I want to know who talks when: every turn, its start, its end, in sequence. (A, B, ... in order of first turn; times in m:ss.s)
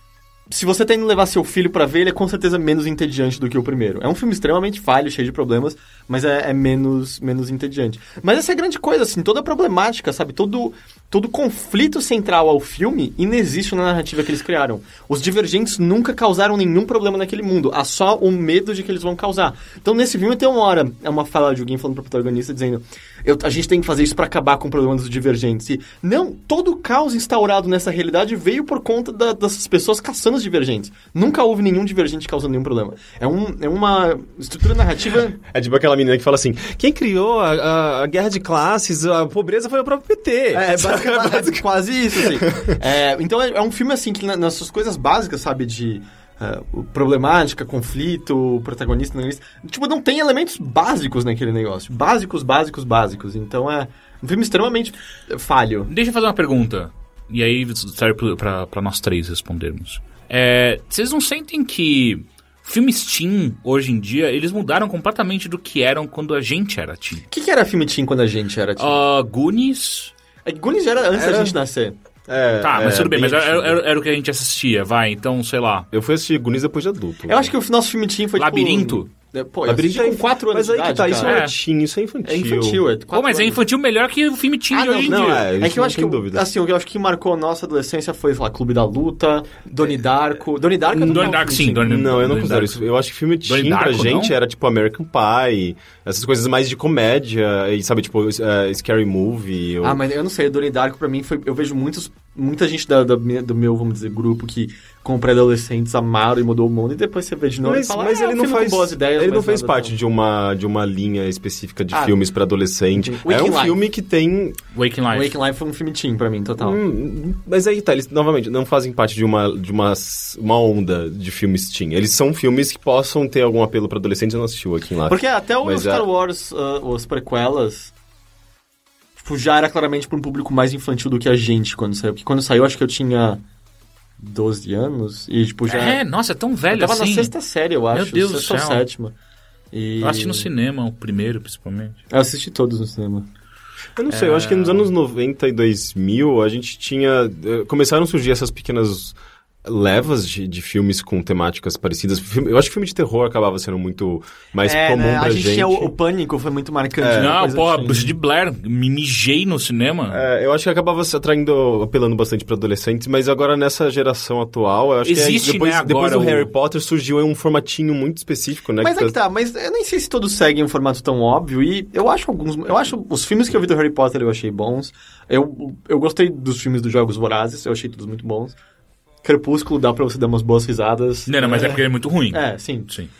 0:00.5-0:35.4 A
0:35.4-0:42.8 B
0:40.5-0:55.9 A
0:55.9-1:07.2 C
1:07.3-1:09.0 A
1:08.8-1:10.1 C
1:10.4-1:12.0 A
1:11.1-1:11.6 B
1:12.3-1:13.8 B
1:12.6-1:15.9 C
1:15.9-1:17.5 B
1:17.3-1:21.4 A
1:18.4-1:19.1 C
1:19.6-1:22.8 B
1:21.2-1:21.5 C
1:22.2-1:23.6 A
1:23.1-1:25.4 C
1:24.7-1:32.0 A
1:25.0-1:26.4 B
1:30.9-1:40.0 B
1:31.0-1:32.8 C
1:33.4-1:34.3 C
1:39.8-1:49.9 A
1:47.6-1:54.6 B
1:51.9-1:52.2 A
1:52.9-1:53.8 A
1:54.7-1:55.3 C
1:55.1-1:56.8 A
1:56.6-2:06.1 B
2:05.0-2:07.9 A
2:09.2-2:13.4 A
2:14.2-2:16.0 A
2:15.7-2:17.3 C
2:16.7-2:19.1 A
2:17.9-2:18.8 C
2:19.7-2:20.5 A
2:20.0-2:22.0 C
2:22.1-2:23.3 A
2:24.0-2:35.9 B
2:24.1-2:24.9 C
2:34.6-2:38.1 A
2:37.0-2:37.4 B
2:37.1-2:40.2 C
2:40.1-2:49.1 B
2:45.0-2:46.5 C
2:48.8-2:58.6 A
2:59.2-3:02.9 A
3:01.3-3:03.1 C